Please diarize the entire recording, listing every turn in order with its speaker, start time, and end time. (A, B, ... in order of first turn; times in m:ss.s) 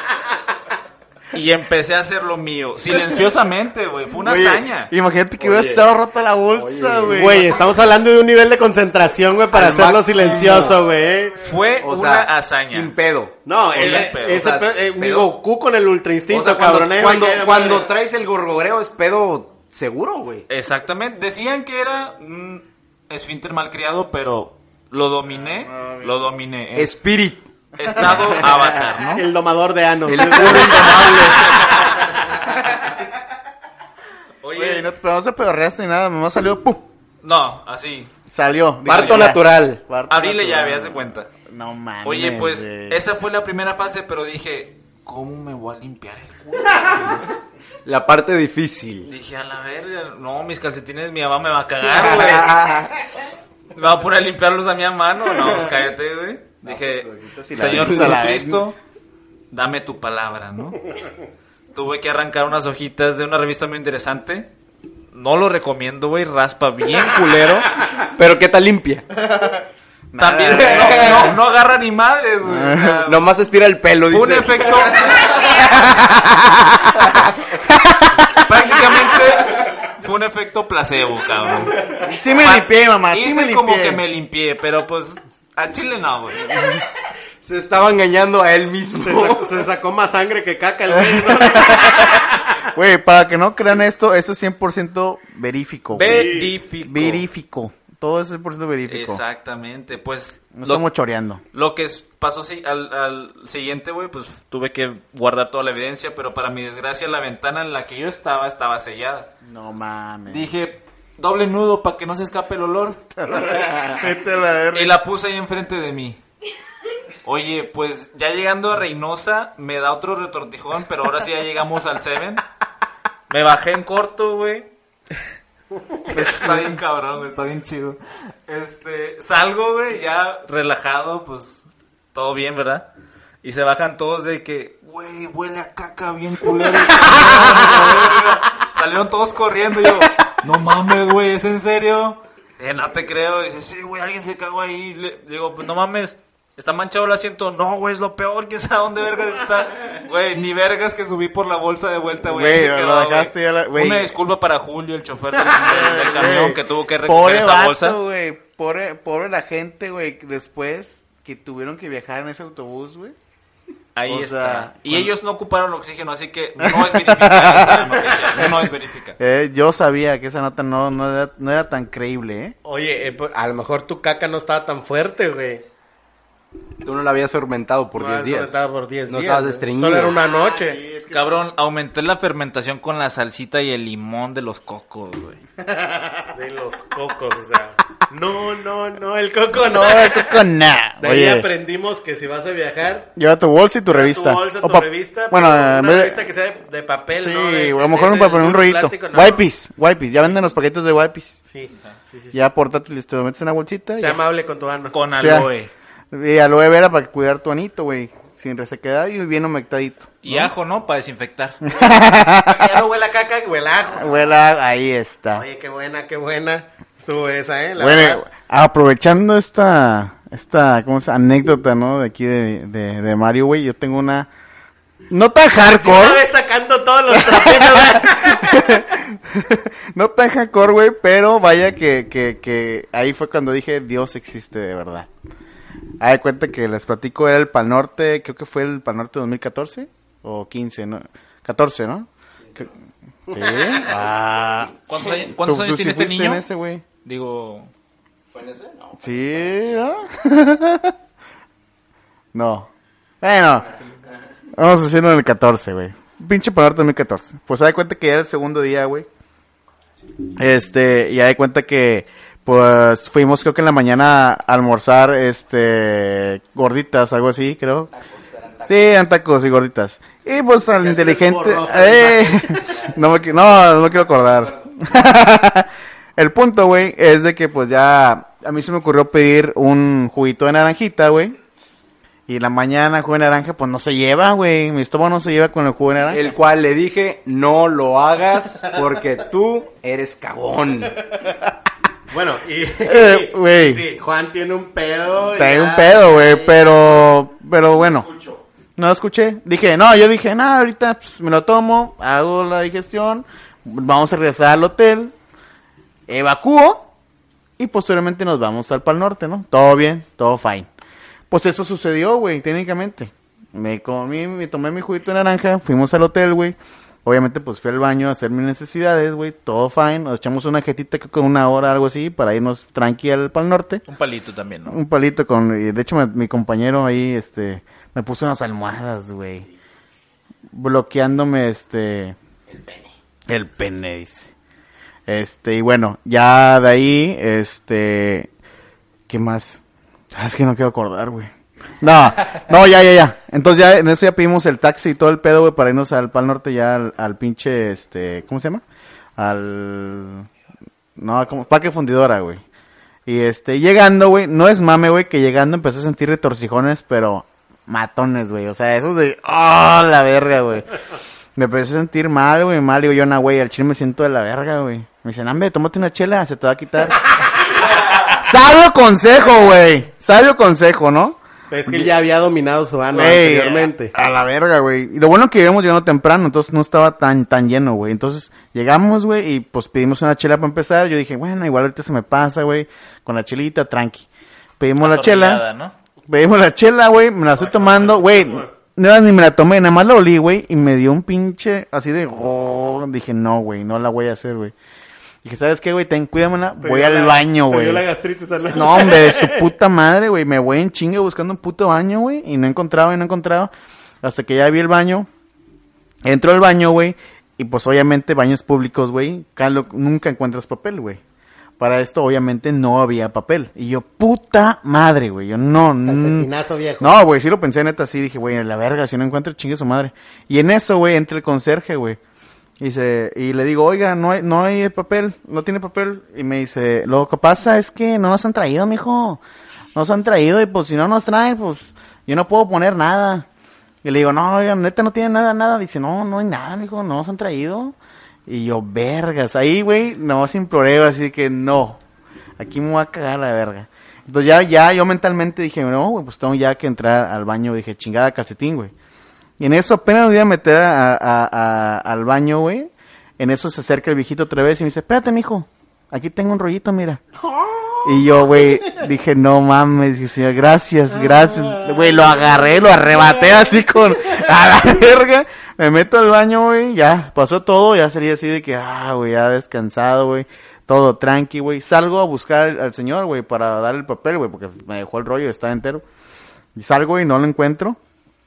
0:01.3-0:04.9 A
0:04.2-0:07.5 B
0:05.4-0:05.9 C
0:06.5-0:07.5 C
0:07.1-0:11.4 D
0:09.5-0:10.8 C
0:11.4-0:12.9 A
0:11.8-0:15.3 C
0:13.5-0:17.9 D
0:13.7-0:14.5 A
0:16.3-0:20.5 C
0:20.5-0:27.0 A
0:25.4-0:26.2 B
0:26.8-0:27.4 C
0:27.8-0:29.2 A
0:27.9-0:28.4 B
0:28.4-0:28.8 C
0:29.2-0:31.5 D
0:30.1-0:31.9 C
0:30.5-0:32.0 A
0:34.4-0:34.9 A
0:34.5-0:36.8 B
0:37.2-0:38.2 A
0:38.3-0:43.0 B
0:38.8-0:39.8 C
0:40.1-0:41.3 A
0:42.0-0:47.2 A
0:47.8-0:49.1 C
0:49.1-0:52.6 A
0:51.8-0:52.9 C
0:53.8-0:58.8 A
0:55.3-0:55.7 C
0:56.6-0:58.2 C
0:57.2-0:58.6 B
0:59.5-1:00.8 A
1:01.7-1:04.5 A
1:05.1-1:07.7 A
1:08.0-1:09.1 C
1:09.3-1:11.4 B
1:10.2-1:13.3 A
1:10.5-1:11.4 C
1:12.4-1:13.1 B
1:13.1-1:16.3 C
1:14.1-1:15.9 A
1:16.9-1:17.5 C
1:17.8-1:18.3 B
1:18.3-1:26.7 A
1:22.0-1:24.0 B
1:27.4-1:29.6 C
1:29.0-1:32.4 D
1:30.9-1:39.2 B
1:35.9-1:37.2 A
1:36.0-1:36.5 D
1:38.9-1:40.8 A
1:40.5-1:41.4 B
1:41.5-1:49.3 A
1:49.4-1:50.5 B
1:50.3-1:53.3 A
1:53.3-1:55.0 B
1:54.7-1:56.2 A
1:57.2-2:02.4 A
2:03.3-2:04.7 A
2:06.0-2:12.9 A
2:06.1-2:06.8 B
2:13.4-2:38.0 A
2:17.4-2:17.7 B
2:32.2-2:34.1 B
2:35.6-2:43.1 B
2:44.0-2:49.2 A
2:44.1-2:45.1 B
2:46.6-2:52.6 B
2:52.6-2:55.6 D
2:56.8-3:00.2 C
2:58.0-3:00.8 D
3:00.3-3:01.4 B
3:01.1-3:05.4 A
3:05.6-3:06.3 B
3:06.3-3:10.4 D
3:09.6-3:11.5 B
3:11.0-3:13.1 D
3:13.2-3:16.2 B
3:13.9-3:19.4 D
3:17.2-3:21.4 B
3:21.5-3:22.4 D
3:22.3-3:24.2 B
3:24.0-3:25.0 D
3:24.9-3:25.7 A
3:25.2-3:25.5 B
3:26.1-3:30.5 B
3:30.2-3:31.6 A
3:31.6-3:32.8 B
3:31.7-3:34.3 D
3:33.9-3:35.4 B
3:35.3-3:38.2 D
3:37.8-3:44.3 B
3:45.1-3:46.2 B
3:45.6-3:48.8 D
3:47.1-3:55.1 B
3:56.0-4:02.7 B
4:03.3-4:03.8 D
4:03.3-4:04.7 B
4:03.8-4:06.4 A
4:05.3-4:06.8 B
4:07.0-4:07.7 A
4:08.3-4:09.9 C
4:09.0-4:11.0 B
4:12.3-4:12.7 B
4:13.2-4:13.7 B
4:14.5-4:19.1 B
4:20.4-4:27.9 B
4:27.9-4:29.1 C
4:28.7-4:41.4 B
4:30.8-4:32.7 D
4:32.7-4:33.0 C
4:34.1-4:34.7 C
4:42.3-4:46.3 B
4:46.1-4:51.0 C
4:51.2-4:51.5 B
4:52.1-4:57.0 D
4:52.8-4:53.8 B
4:55.3-4:58.1 B
4:58.0-4:58.4 C
4:58.8-5:05.1 B
5:06.1-5:06.9 B
5:07.6-5:10.7 B
5:11.3-5:23.8 B
5:23.9-5:24.8 A
5:24.7-5:29.5 B
5:30.5-5:32.2 B
5:32.5-5:32.9 C
5:33.3-5:34.3 B
5:35.1-5:38.3 B
5:39.1-5:39.6 B
5:40.1-5:48.6 B
5:49.2-5:50.3 B
5:51.0-5:52.4 B
5:53.1-6:00.7 B
6:01.4-6:11.9 B
6:11.5-6:13.9 D
6:12.9-6:24.1 B
6:24.6-6:25.4 B
6:24.8-6:25.7 A
6:26.1-6:34.5 B
6:27.4-6:28.5 D
6:35.2-6:37.8 B
6:36.6-6:39.5 D
6:38.4-6:43.5 B
6:44.0-6:45.1 B
6:46.0-6:51.0 B
6:51.6-6:56.3 B
6:55.8-6:56.9 D
6:56.8-7:02.0 B
7:02.6-7:09.2 B
7:09.8-7:13.3 B
7:13.8-7:17.8 B
7:18.3-7:21.8 B
7:22.4-7:28.7 B
7:29.4-7:37.0 B
7:37.2-7:38.8 D
7:37.8-7:55.8 B
7:40.9-7:43.6 D
7:56.6-7:57.8 B